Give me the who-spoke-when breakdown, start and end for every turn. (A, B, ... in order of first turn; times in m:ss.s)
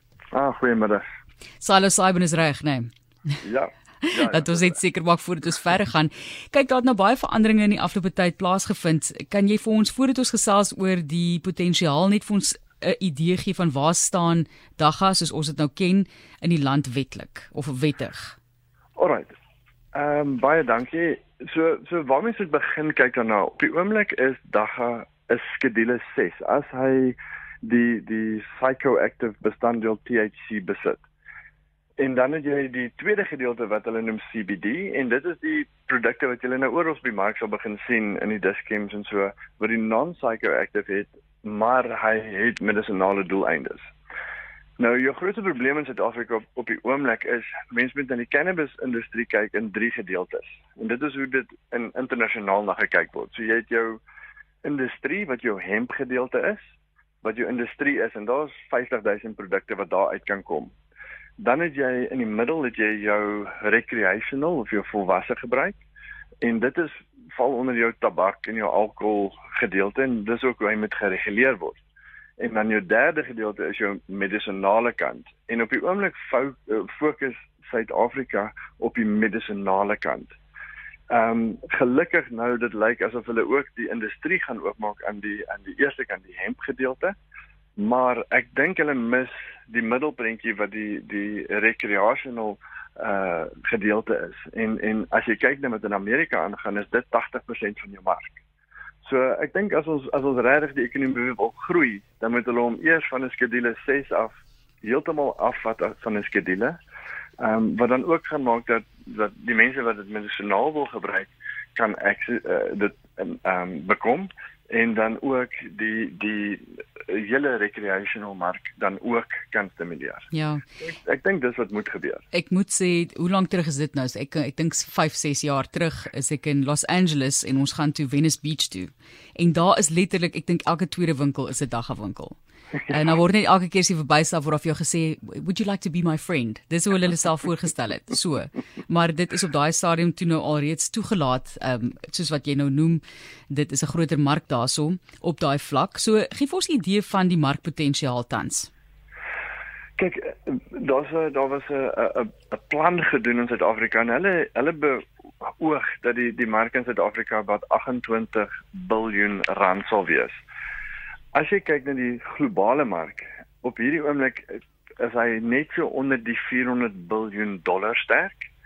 0:00.3-0:01.1 A
0:01.6-0:03.3 B
0:03.4-0:04.8 A
0:04.0-0:18.4 B
0:19.0-0:19.3 A
0:19.9-0:31.0 A
0:32.0-0:43.8 A
0:44.8-0:54.0 A
0:54.6-0:56.7 A
0:57.2-1:00.7 A
1:01.4-1:05.8 A
1:06.4-1:11.8 A
1:12.4-1:20.4 A
1:21.1-1:27.2 A
1:27.8-1:38.4 A
1:39.0-1:46.8 A
1:47.4-2:00.3 A
2:00.3-2:00.6 B
2:00.8-2:02.2 A
2:02.3-2:12.4 B
2:12.9-2:28.7 B
2:30.0-2:40.4 A
2:41.3-2:48.5 A